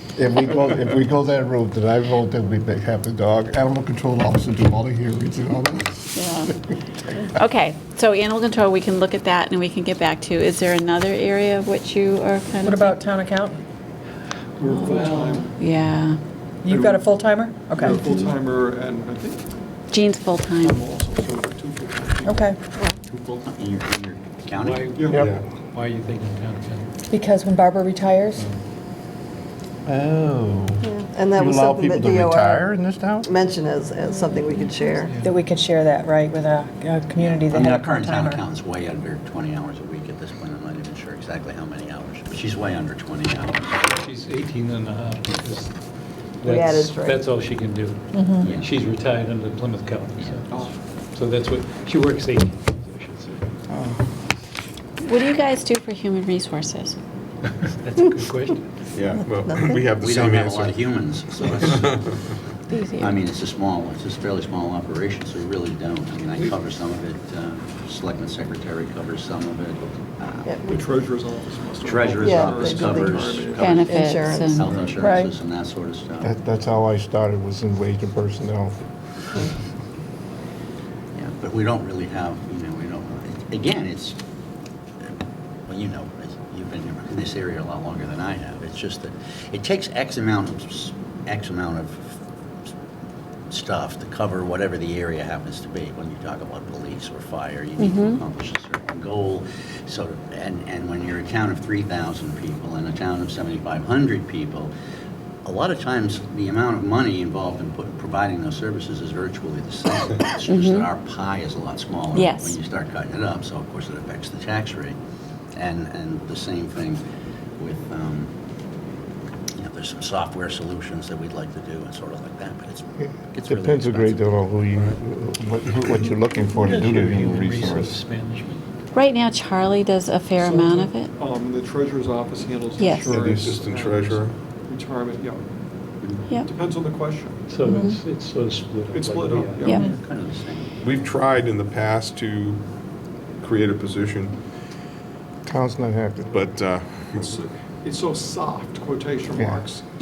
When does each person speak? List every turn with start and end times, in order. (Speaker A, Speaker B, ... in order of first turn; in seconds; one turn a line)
Speaker A: 0.2-6.5
Speaker B: 0.6-0.9
Speaker C: 6.1-6.5
Speaker C: 7.3-12.9
Speaker D: 12.6-13.6
Speaker E: 14.6-15.6
Speaker C: 14.7-16.2
Speaker F: 14.9-15.5
Speaker D: 16.6-18.0
Speaker E: 16.6-19.5
Speaker C: 19.9-20.8
Speaker E: 20.6-23.5
Speaker D: 22.2-22.6
Speaker G: 23.4-25.0
Speaker F: 24.5-26.9
Speaker E: 24.9-25.3
Speaker B: 25.1-25.4
Speaker A: 25.1-25.4
Speaker D: 27.1-28.4
Speaker A: 29.9-33.3
Speaker H: 30.8-35.1
Speaker F: 35.0-35.3
Speaker D: 35.2-38.4
Speaker G: 37.2-43.9
Speaker F: 44.0-45.7
Speaker F: 46.4-53.4
Speaker H: 46.4-47.2
Speaker D: 48.1-48.5
Speaker G: 48.4-48.8
Speaker E: 50.5-50.7
Speaker A: 53.7-54.0
Speaker C: 55.0-57.0
Speaker F: 57.6-58.6
Speaker B: 58.9-62.1
Speaker H: 59.2-59.9
Speaker G: 60.0-62.0
Speaker C: 62.7-63.1
Speaker G: 63.0-70.6
Speaker H: 70.4-70.9
Speaker E: 70.7-73.8
Speaker G: 71.8-73.9
Speaker H: 72.2-75.0
Speaker C: 73.6-74.7
Speaker G: 74.5-76.3
Speaker D: 75.0-75.3
Speaker A: 76.2-78.8
Speaker G: 81.1-84.2
Speaker G: 85.7-92.2
Speaker G: 93.5-104.7
Speaker C: 97.8-98.2
Speaker G: 105.4-115.0
Speaker C: 110.4-110.9
Speaker C: 112.1-112.6
Speaker G: 115.5-117.0
Speaker G: 117.6-118.3
Speaker G: 119.5-124.3
Speaker A: 123.0-128.0
Speaker F: 126.5-128.6
Speaker C: 128.9-131.1
Speaker E: 130.4-135.4
Speaker C: 132.8-133.2
Speaker A: 133.1-133.6
Speaker B: 133.2-134.3
Speaker E: 136.4-137.4
Speaker F: 137.5-139.9
Speaker C: 137.7-138.0
Speaker E: 138.9-140.0
Speaker G: 139.7-140.7
Speaker B: 140.8-142.6
Speaker B: 143.4-144.4
Speaker A: 145.4-146.4
Speaker B: 146.3-147.4
Speaker E: 147.2-149.8
Speaker A: 149.3-149.6